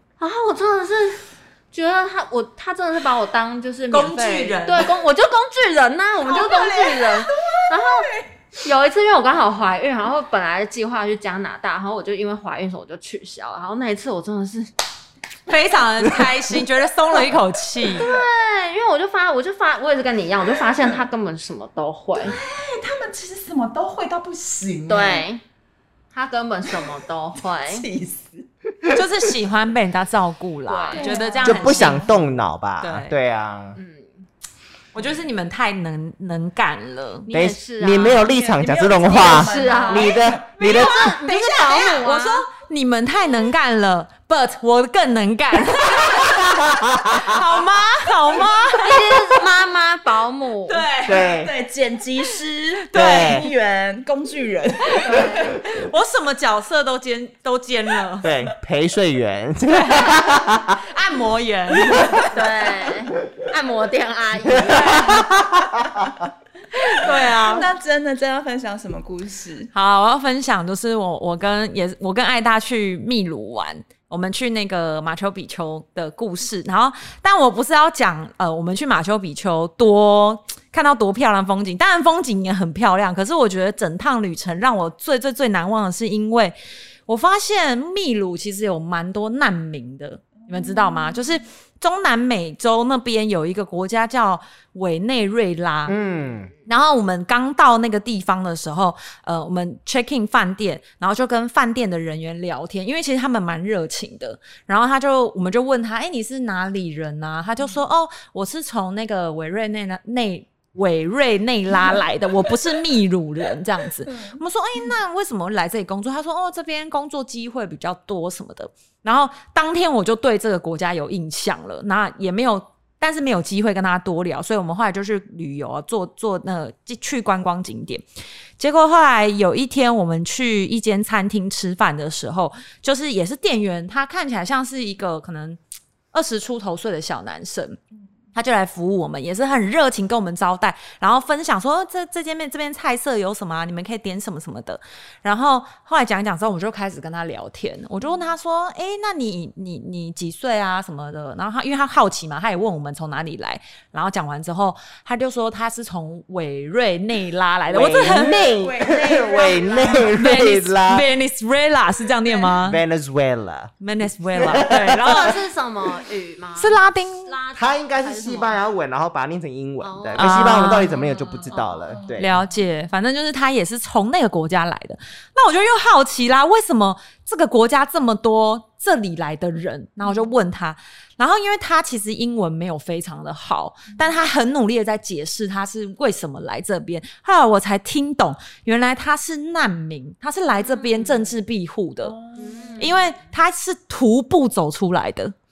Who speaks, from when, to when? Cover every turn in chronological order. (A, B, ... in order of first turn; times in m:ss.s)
0:00.2-0:14.7 A
0:03.9-0:04.9 B
0:06.4-0:08.2 C
0:15.5-0:18.1 B
0:17.9-0:22.4 A
0:22.1-0:25.3 C
0:24.9-0:25.4 A
0:26.1-0:27.8 A
0:27.7-0:28.5 C
0:28.9-0:32.1 B
0:30.7-0:31.3 A
0:30.9-0:32.2 C
0:31.4-0:33.8 D
0:32.8-0:33.2 B
0:33.8-0:34.2 A
0:34.9-0:37.3 B
0:37.3-0:38.3 A
0:37.3-0:41.2 D
0:38.1-0:40.4 C
0:39.0-0:42.5 A
0:40.6-0:49.1 B
0:46.2-0:47.4 D
0:48.8-0:50.9 A
0:50.7-0:51.3 B
0:51.0-0:51.5 D
0:51.2-0:55.5 C
0:52.9-0:53.4 B
0:52.9-0:53.5 D
0:54.9-0:58.3 B
0:55.0-0:55.6 A
0:58.2-1:00.8 D
0:59.7-1:02.3 B
1:02.2-1:05.3 A
1:04.5-1:06.1 D
1:04.8-1:05.2 B
1:06.8-1:07.7 B
1:07.0-1:09.7 C
1:09.7-1:26.6 B
1:27.1-1:36.0 B
1:30.5-1:31.2 C
1:35.9-1:36.5 D
1:36.6-2:08.0 B
2:08.6-2:15.6 B
2:16.1-2:17.8 B
2:18.3-2:38.5 B
2:37.7-2:41.0 D
2:38.2-2:40.2 C
2:40.1-2:42.8 B
2:42.6-2:43.7 D
2:43.8-2:45.4 B
2:44.3-2:45.2 D
2:45.0-2:48.6 A
2:46.6-2:47.4 B
2:47.5-2:52.3 D
2:49.8-2:52.0 A
2:50.2-2:51.0 B
2:52.2-3:12.2 B
3:10.7-3:11.3 A
3:12.0-3:12.9 C
3:12.4-3:13.1 A
3:12.8-3:15.3 B